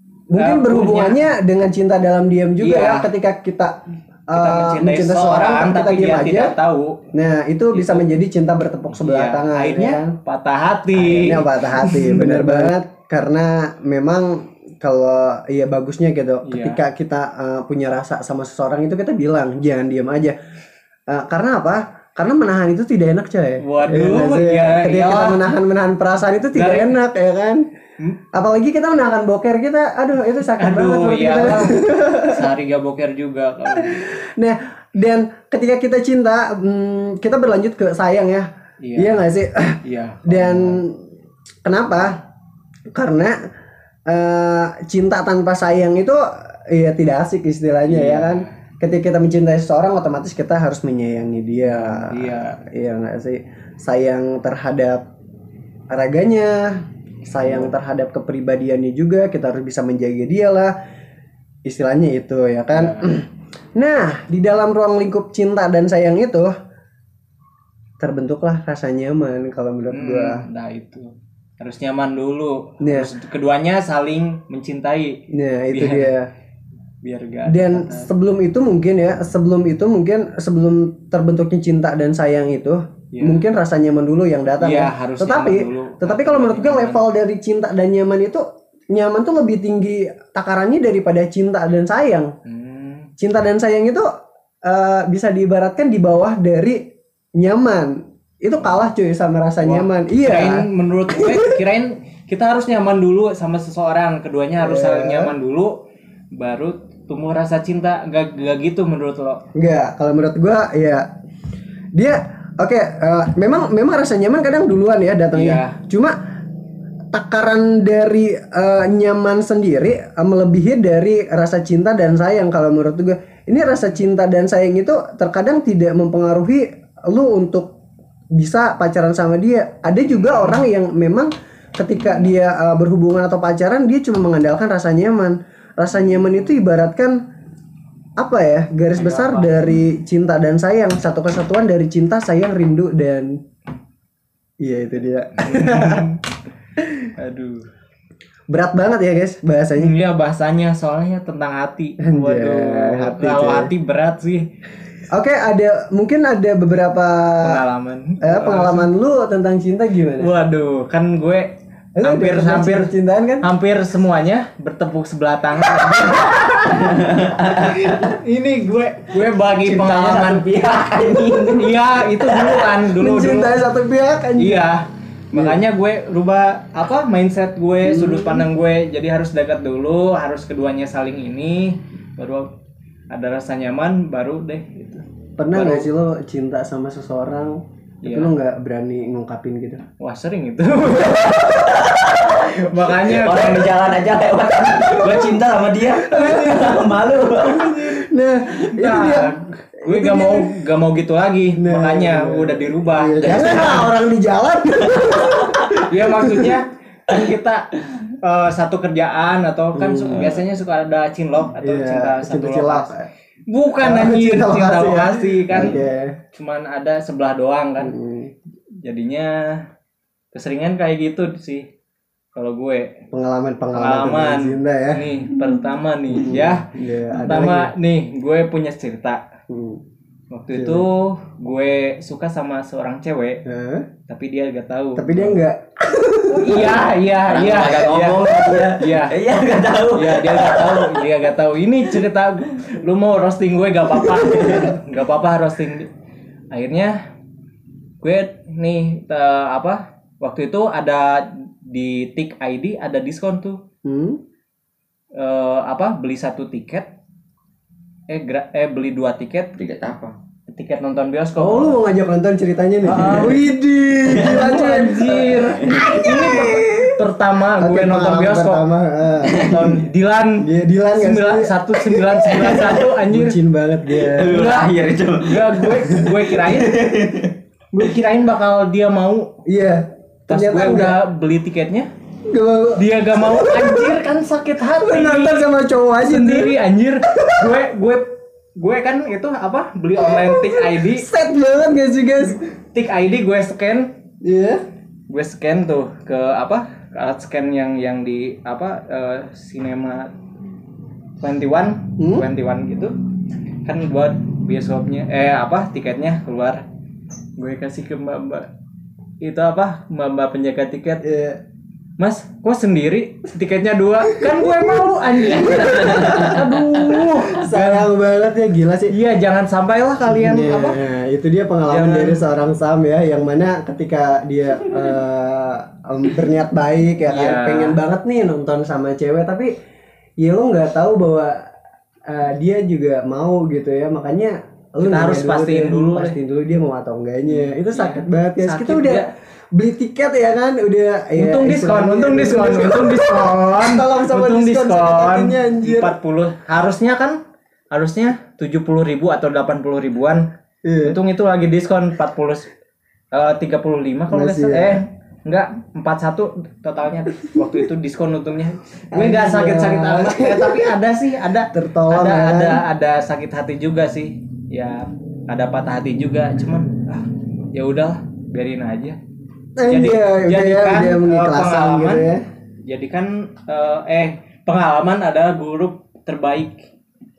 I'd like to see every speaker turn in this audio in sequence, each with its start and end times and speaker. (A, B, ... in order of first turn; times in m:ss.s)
0:00.3-0:03.8 A
0:00.4-0:01.3 B
0:02.6-0:03.1 B
0:04.3-0:06.5 A
0:04.3-0:07.0 B
0:07.1-0:10.1 A
0:07.7-0:08.2 B
0:08.9-0:12.7 B
0:10.9-0:20.4 A
0:16.4-0:16.8 B
0:21.1-0:27.6 A
0:23.6-0:25.5 B
0:26.5-0:26.9 B
0:28.3-0:32.4 A
0:30.5-0:34.1 B
0:33.7-0:41.0 A
0:38.8-0:39.2 B
0:39.8-0:40.8 B
0:41.6-0:42.2 A
0:42.9-0:43.4 A
0:44.1-0:55.0 A
0:47.9-0:48.6 B
0:51.6-0:52.6 B
0:55.9-1:00.7 A
0:57.4-0:57.7 B
1:01.6-1:06.5 A
1:02.7-1:03.1 B
1:08.0-1:10.4 A
1:09.9-1:15.2 B
1:12.8-1:13.1 A
1:15.3-1:16.3 A
1:15.7-1:16.1 B
1:17.0-1:18.1 B
1:17.5-1:32.3 A
1:23.1-1:23.4 B
1:24.6-1:27.0 B
1:32.4-1:33.1 B
1:33.2-1:34.1 A
1:34.6-1:36.8 A
1:37.4-1:41.6 A
1:39.6-1:45.7 B
1:44.6-1:45.3 A
1:46.3-1:49.4 B
1:49.5-1:51.1 A
1:51.9-1:56.2 A
1:55.3-1:55.8 B
1:57.1-2:07.7 A
2:08.3-2:17.2 A
2:18.2-2:23.4 A
2:18.9-2:19.8 B
2:24.6-2:26.1 A
2:25.4-2:26.2 B
2:26.8-2:27.1 A
2:27.2-2:27.6 B
2:28.5-2:29.9 A
2:29.8-2:34.5 B
2:32.0-2:33.7 A
2:35.1-2:37.6 A
2:37.4-2:38.9 B
2:38.2-2:40.3 A
2:40.2-2:42.9 B
2:42.0-2:43.5 A
2:43.4-2:46.4 B
2:46.1-2:48.1 C
2:47.6-2:50.8 B
2:49.6-2:50.4 A
2:49.9-2:52.6 C
2:51.3-2:53.6 B
2:52.9-2:54.6 A
2:54.4-3:02.5 B
2:55.3-2:55.6 A
2:57.8-2:58.5 A
3:03.1-3:05.9 B
3:05.4-3:09.8 A
3:08.0-3:08.3 B
3:10.0-3:11.6 B
3:10.9-3:18.0 C
3:12.5-3:13.8 B
3:14.7-3:15.4 A
3:15.9-3:16.8 A
3:17.4-3:20.6 A
3:18.7-3:23.8 B
3:21.6-3:26.6 A
3:23.3-3:23.9 C
3:25.0-3:25.8 C
3:25.8-3:32.9 B
3:29.7-3:30.4 A
3:31.6-3:33.1 A
3:33.5-3:35.8 B
3:33.8-3:36.1 A
3:36.3-3:37.9 B
3:37.8-3:38.3 A
3:38.8-3:39.6 B
3:40.3-3:41.7 B
3:42.3-3:42.9 B
3:43.1-3:45.6 A
3:43.7-3:49.2 B
3:46.1-3:47.7 A
3:49.5-3:49.8 A
3:50.3-3:53.4 B
3:50.5-3:50.8 A
3:53.4-3:53.9 A
3:54.1-3:55.4 B
3:54.9-3:56.8 A
3:56.3-3:59.2 B
3:57.2-4:01.1 C
3:59.9-4:05.9 B
4:04.0-4:04.7 C
4:06.5-4:07.0 B
4:08.0-4:13.6 B
4:13.8-4:14.2 A
4:15.2-4:16.9 B
4:18.1-4:19.6 B
4:19.6-4:20.2 C
4:20.5-4:21.8 B
4:21.4-4:27.0 A
4:22.8-4:23.4 B
4:24.1-4:24.6 C
4:24.1-4:28.6 B
4:25.4-4:26.0 C
4:27.6-4:29.4 A
4:29.2-4:29.8 C
4:29.2-4:33.4 B
4:30.4-4:34.4 A
4:33.9-4:37.4 C
4:34.3-4:36.8 B
4:37.7-4:39.3 B
4:39.4-4:41.0 A
4:40.3-4:41.9 B
4:42.3-4:44.0 A
4:42.8-4:51.1 B
4:44.6-4:46.5 A
4:47.1-4:47.6 A
4:50.0-4:52.4 A
4:52.7-4:53.9 B
4:54.2-4:54.6 A
4:55.1-5:00.1 B
5:01.2-5:02.9 B
5:02.0-5:02.3 A
5:03.6-5:06.6 B
5:07.4-5:08.5 B
5:09.2-5:11.0 B
5:11.0-5:11.4 A
5:12.0-5:17.9 B
5:14.1-5:18.9 A
5:15.4-5:16.2 C
5:18.9-5:20.8 B
5:20.0-5:29.5 A
5:21.7-5:22.2 B
5:27.1-5:27.8 B
5:30.2-5:31.4 A
5:32.1-5:46.0 A
5:34.8-5:36.2 B
5:37.2-5:39.1 B
5:41.1-5:47.2 B
5:47.7-5:50.2 B
5:50.6-5:51.0 A
5:50.8-5:52.5 B
5:53.1-6:09.0 B
5:54.1-5:54.8 A
5:58.9-6:00.8 A
6:01.5-6:02.6 A
6:09.6-6:12.2 A
6:09.7-6:12.1 B
6:12.6-6:16.7 B